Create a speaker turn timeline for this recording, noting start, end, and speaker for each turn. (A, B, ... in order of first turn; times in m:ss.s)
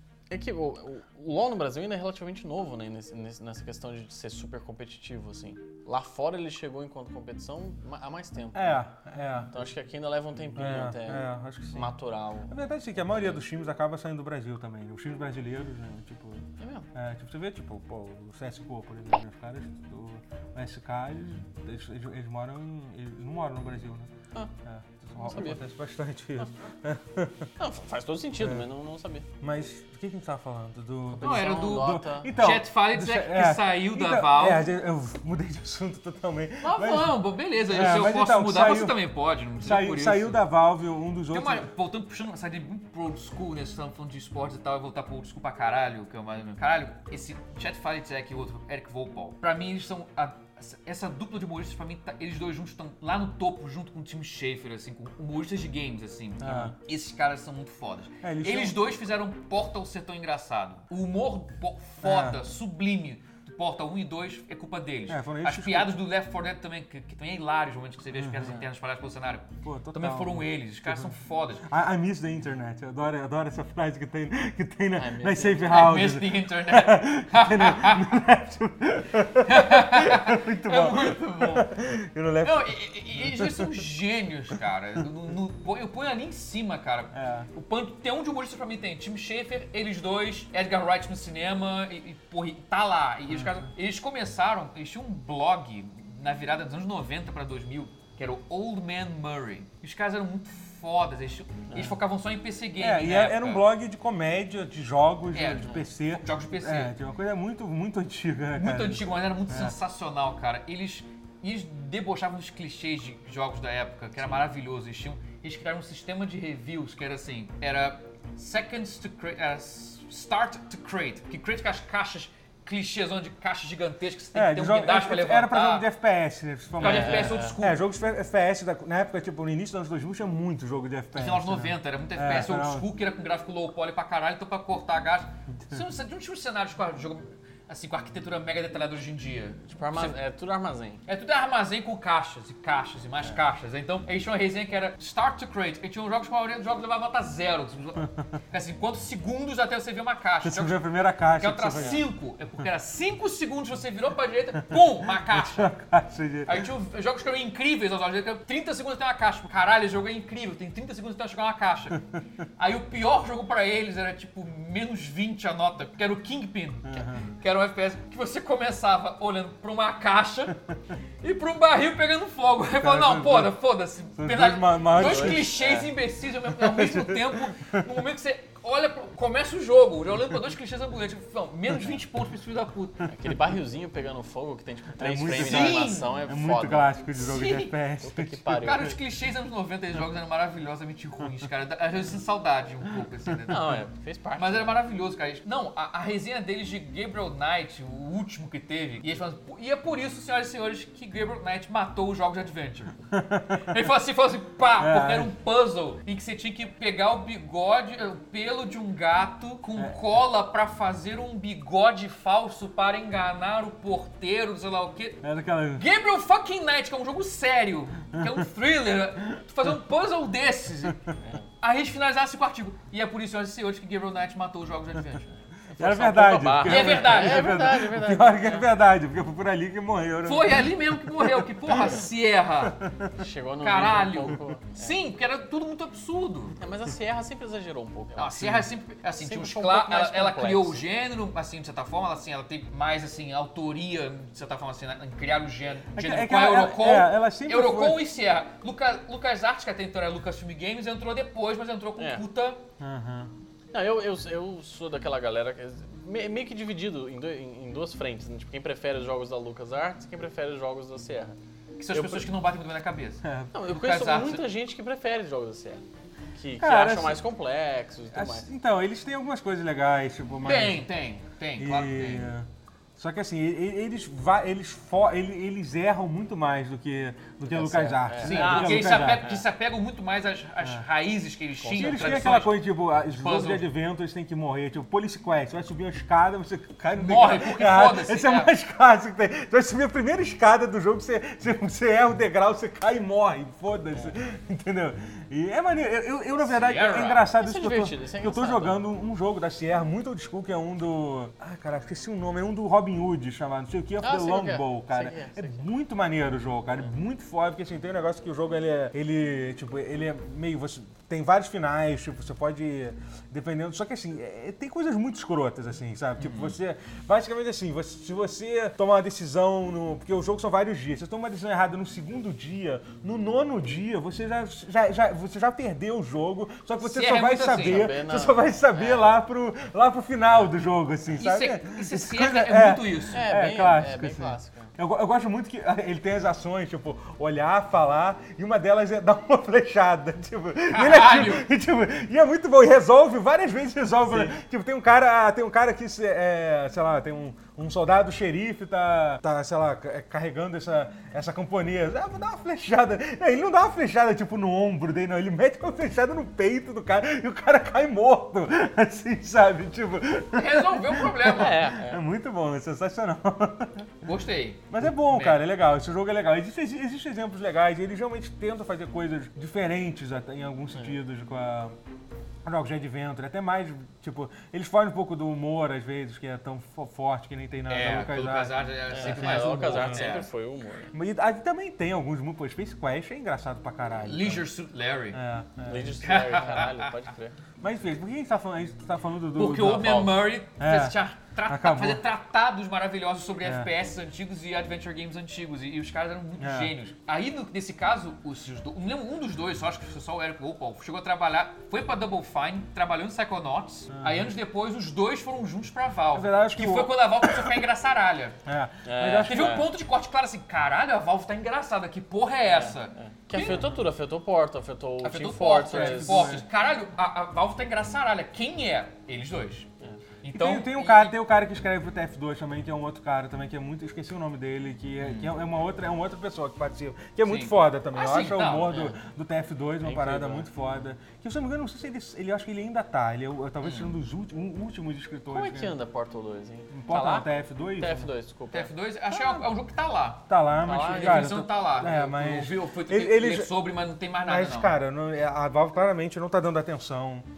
0:00.3-0:08.8 A
0:08.5-0:09.5 B
0:09.5-0:13.4 A
0:10.6-0:11.9 B
0:12.5-0:24.1 B
0:16.6-0:16.9 A
0:24.6-0:27.5 B
0:25.2-0:25.6 A
0:27.6-0:29.2 A
0:28.4-0:28.7 B
0:29.4-0:39.0 B
0:31.1-0:32.3 A
0:31.2-0:34.7 C
0:36.6-0:40.4 C
0:39.6-0:41.7 B
0:41.3-1:11.6 C
0:56.4-0:56.7 B
0:58.2-0:58.8 B
1:02.0-1:02.4 B
1:05.1-1:05.9 B
1:08.1-1:08.6 B
1:09.6-1:23.8 B
1:14.9-1:15.8 A
1:15.6-1:18.2 C
1:19.4-1:21.7 C
1:22.4-1:43.6 C
1:27.1-1:27.5 B
1:33.3-1:33.6 B
1:41.7-1:41.9 A
1:42.8-1:49.8 B
1:45.3-1:46.9 C
1:48.6-2:05.9 C
2:04.3-2:12.9 B
2:06.8-2:07.8 C
2:06.8-2:07.6 A
2:11.1-2:20.1 C
2:19.7-2:21.0 A
2:21.1-2:35.7 C
2:30.4-2:32.0 B
2:34.7-2:36.7 B
2:36.4-2:42.0 C
2:42.6-2:50.6 C
2:46.8-2:47.3 B
2:51.2-3:03.0 C
2:52.7-2:53.5 B
2:54.2-2:55.6 B
2:54.9-2:55.9 A
2:56.5-2:57.8 B
3:03.0-3:06.9 A
3:05.0-3:08.6 B
3:05.3-3:06.1 C
3:07.1-3:07.7 C
3:08.0-3:09.0 A
3:08.5-3:13.8 C
3:13.5-3:14.8 A
3:14.4-3:22.9 C
3:23.1-3:23.8 B
3:23.6-3:35.2 C
3:24.8-3:25.3 B
3:35.2-3:35.8 B
3:35.7-3:45.2 C
3:38.1-3:38.4 B
3:45.8-3:48.6 A
3:45.8-3:52.0 B
3:46.6-3:47.6 C
3:50.2-3:52.8 C
3:52.7-3:53.1 B
3:53.2-3:55.0 A
3:53.6-3:56.6 C
3:56.6-3:58.7 A
3:58.2-4:12.6 C
3:59.2-4:00.8 A
4:05.9-4:08.0 B
4:12.0-4:12.2 A
4:12.8-4:13.3 B
4:13.7-4:21.4 A
4:21.8-4:24.5 C
4:21.9-4:22.3 A
4:23.2-4:23.5 B
4:23.5-4:28.5 A
4:26.6-4:27.2 B
4:28.1-4:30.9 B
4:30.4-4:32.3 C
4:31.6-4:39.4 B
4:37.4-4:39.4 A
4:38.2-4:43.7 C
4:41.6-4:42.2 A
4:41.6-6:04.1 B
4:46.9-4:48.5 C
4:56.4-4:57.3 C
4:57.4-4:58.8 A
5:04.0-5:05.7 A
5:16.2-5:16.6 C
5:26.8-5:27.9 C
5:27.5-5:29.0 A
5:31.1-5:33.2 C
5:33.1-5:34.7 A
5:40.7-5:41.5 C
6:00.3-6:01.7 C
6:01.2-6:02.0 A
6:04.0-6:05.4 C
6:04.7-6:11.8 B
6:12.4-6:20.0 B
6:17.7-6:20.3 C
6:18.9-6:20.9 A
6:20.9-6:24.5 B
6:24.0-6:25.2 C
6:25.1-6:26.2 B
6:25.6-6:27.4 A
6:26.0-6:26.9 C
6:27.6-6:31.0 B
6:29.3-6:48.4 C
6:31.5-6:32.0 B
6:33.4-6:33.7 B
6:36.4-6:36.7 B
6:43.9-6:44.3 B
6:46.1-6:47.6 B
6:48.4-6:49.7 B
6:48.8-6:49.7 A
6:49.2-6:53.7 C
6:52.5-6:56.4 A
6:53.4-6:53.8 B
6:55.0-6:59.7 C
6:55.7-6:56.4 B
7:00.2-7:01.1 C
7:00.3-7:15.8 B
7:05.0-7:05.3 C
7:07.2-7:08.8 C
7:08.7-7:08.9 A
7:09.8-7:10.5 A
7:13.6-7:14.0 C
7:15.3-7:18.7 A
7:16.7-7:18.1 B
7:18.5-7:20.2 C
7:19.1-7:19.4 B
7:20.3-7:23.5 B
7:20.6-7:21.4 A
7:20.8-7:24.7 C
7:24.2-7:27.2 B